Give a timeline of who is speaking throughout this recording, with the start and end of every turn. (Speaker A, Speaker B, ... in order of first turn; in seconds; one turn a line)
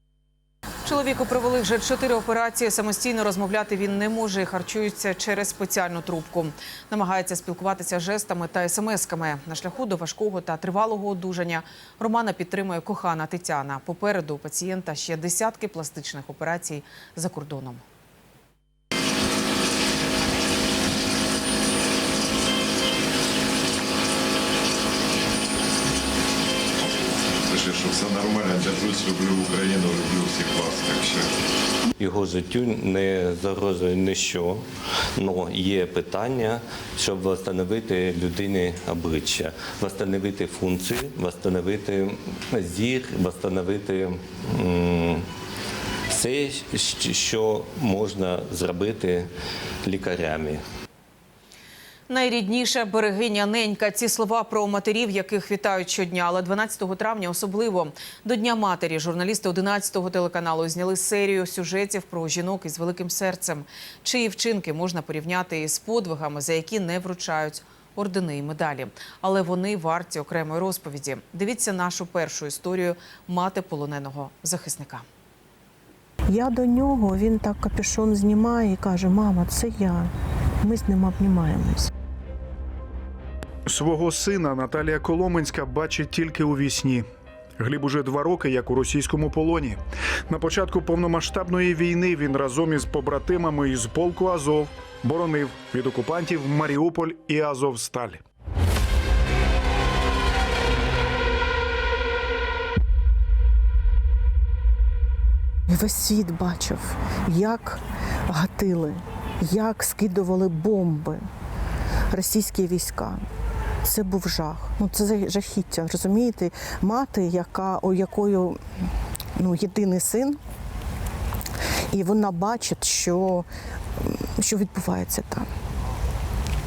Speaker A: 0.8-17.8
Speaker B: 27.5-31.3
Speaker C: 32.0-34.6
Speaker C: 35.1-45.2
Speaker C: 46.1-49.3
Speaker C: 49.8-50.6
Speaker A: 52.1-75.0
Speaker D: 76.3-81.9
Speaker E: 83.7-87.0
Speaker E: 87.6-98.2
Speaker D: 105.7-111.2
Speaker D: 112.1-113.2
Speaker D: 113.8-118.6
Speaker D: 119.4-120.4
Speaker D: 121.9-125.5